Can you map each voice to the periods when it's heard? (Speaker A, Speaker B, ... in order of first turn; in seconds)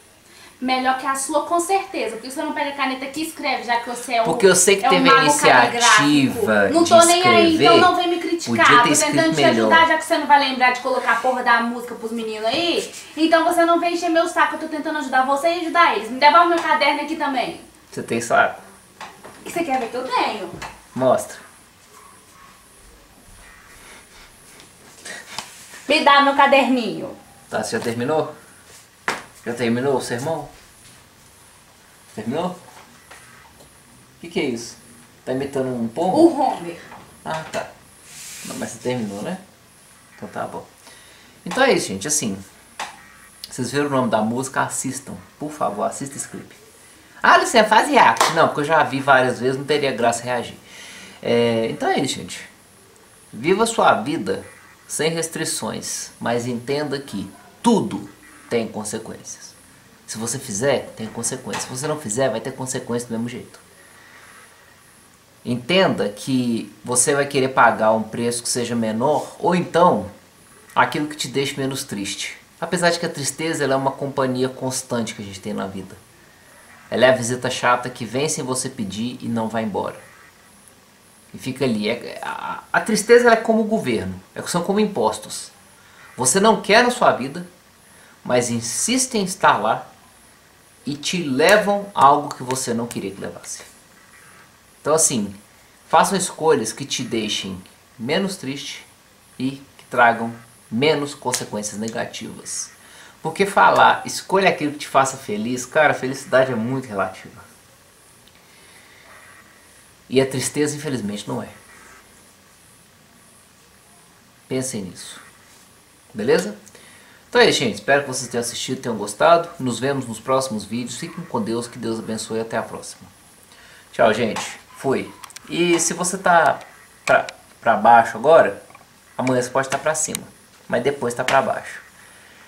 Speaker A: 0.6-17.6, 19.4-20.6, 25.9-27.2, 36.1-36.8
Speaker B: 4.2-9.9, 17.9-18.6, 20.9-21.4, 27.5-28.3, 29.4-30.5, 32.1-32.5, 34.2-36.3, 37.2-37.7, 38.4-39.4, 40.2-40.7, 41.4-42.4, 43.5-46.6, 47.2-50.6, 51.2-52.5, 53.3-59.5, 60.1-63.6, 65.4-70.1, 70.8-76.0, 76.9-80.0, 81.3-85.5, 86.1-87.5, 88.2-89.9, 90.9-93.7, 94.8-107.4, 110.1-111.5, 114.5-115.2, 116.1-116.6, 117.3-123.1, 123.9-128.6, 129.2-131.8